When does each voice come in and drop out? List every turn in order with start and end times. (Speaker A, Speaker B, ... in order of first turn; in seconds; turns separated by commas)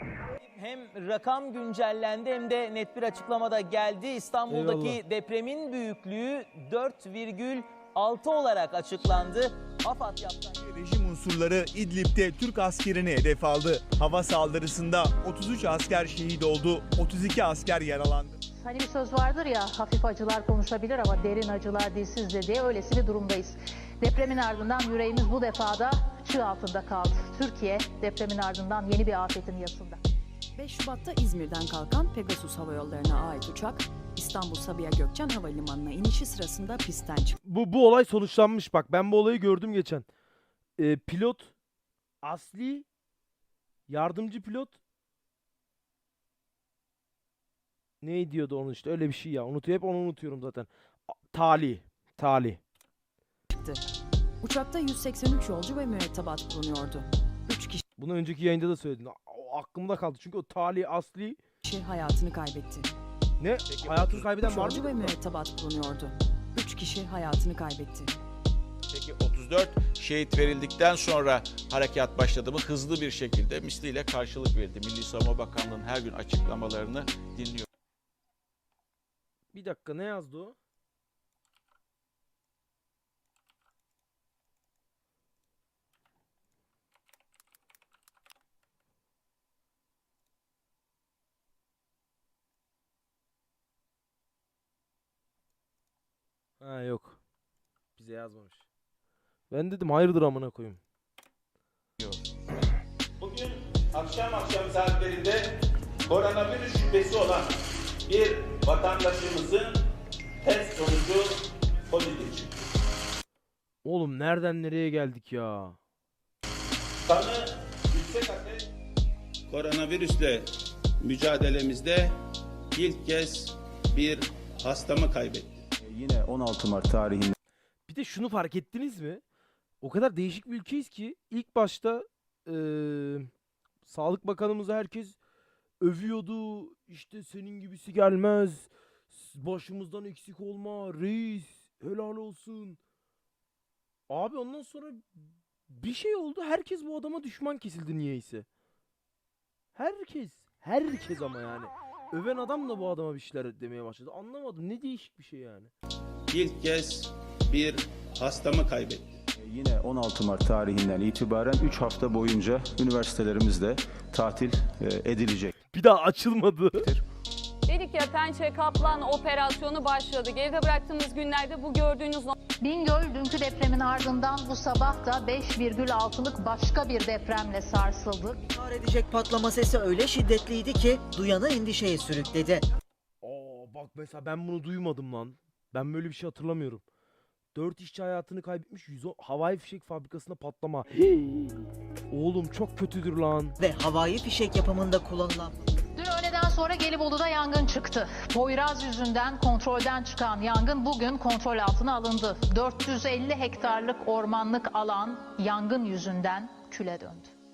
Speaker A: 0.4-10.6, Speaker B: 4.5-5.0, Speaker C: 10.6-18.4, Speaker D: 18.6-30.0, Speaker E: 30.6-37.4, Speaker B: 37.4-40.1, Speaker B: 40.8-41.5, Speaker B: 42.2-42.9, Speaker B: 43.9-44.8, Speaker B: 48.0-52.6, Speaker E: 53.5-53.8, Speaker E: 54.4-57.8, Speaker B: 58.0-61.4, Speaker E: 61.6-62.9, Speaker B: 63.4-65.1, Speaker F: 63.7-64.3, Speaker E: 64.4-68.1, Speaker F: 68.9-77.7, Speaker B: 79.5-80.5, Speaker B: 96.6-97.2, Speaker B: 98.0-98.7, Speaker B: 99.5-100.8, Speaker G: 103.2-105.4, Speaker G: 106.1-107.5, Speaker G: 108.1-109.8, Speaker G: 110.4-111.3, Speaker G: 111.9-112.5, Speaker B: 113.8-115.8, Speaker G: 117.1-118.7, Speaker G: 119.5-120.5, Speaker G: 121.0-122.1, Speaker G: 122.8-125.6, Speaker H: 125.8-127.3, Speaker B: 127.9-129.2, Speaker B: 129.8-133.3, Speaker B: 133.8-135.2, Speaker B: 135.8-142.8, Speaker B: 144.1-148.5, Speaker B: 149.8-155.7, Speaker G: 156.3-159.1, Speaker H: 159.4-165.5, Speaker B: 165.7-166.9, Speaker I: 167.7-172.3, Speaker D: 172.6-178.4, Speaker J: 178.5-182.6, Speaker B: 183.2-186.8, Speaker B: 187.6-193.6, Speaker J: 193.6-195.6, Speaker D: 196.0-207.3